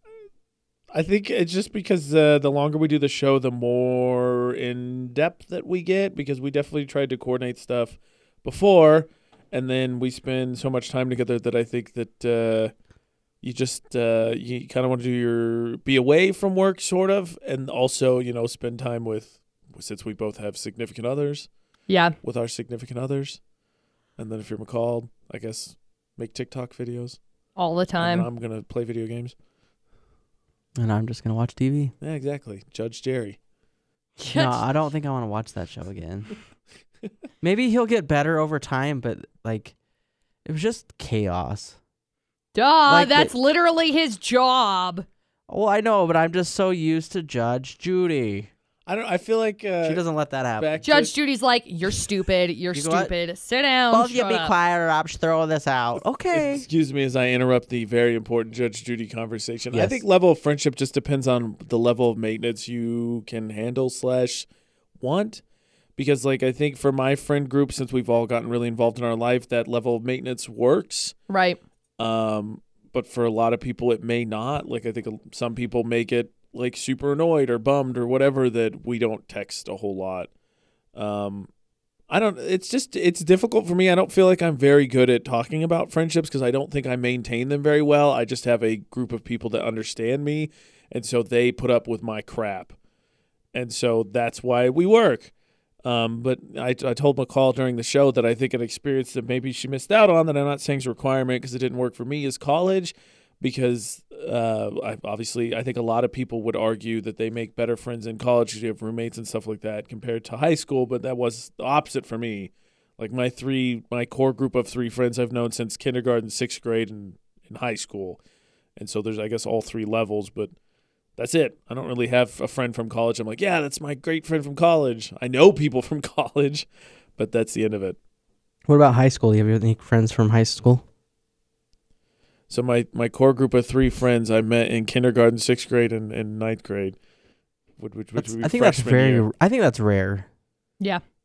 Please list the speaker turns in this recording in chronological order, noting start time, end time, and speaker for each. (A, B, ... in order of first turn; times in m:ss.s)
0:00.9-0:12.7 A
0:13.4-0:21.5 A
0:21.9-0:22.1 B
0:22.2-0:23.4 A
0:24.2-0:27.2 A
0:27.6-0:28.3 B
0:28.0-0:29.4 A
0:30.8-0:31.9 C
0:32.0-0:33.4 A
0:34.2-0:34.6 B
0:34.3-0:36.3 C
0:37.4-0:39.7 C
0:40.4-0:41.8 C
0:42.5-0:45.0 B
0:42.9-0:43.3 C
0:45.5-0:48.5 C
0:48.9-0:50.0 A
0:49.8-0:50.7 C
0:50.6-0:51.1 A
0:50.8-0:54.5 B
0:52.7-0:53.1 C
0:53.9-0:56.6 C
0:56.3-1:04.5 A
0:59.7-1:00.0 C
1:05.0-1:05.4 A
1:06.0-1:11.1 A
1:11.3-1:11.6 B
1:12.0-1:20.3 A
1:20.9-1:21.5 A
1:22.1-1:32.8 A
1:33.5-1:35.3 A
1:35.8-1:58.2 A
1:58.8-2:00.5 A
2:01.2-2:08.0 A
2:08.7-2:10.8 C
2:12.5-2:17.0 A
2:17.8-2:19.2 A
2:18.2-2:20.3 C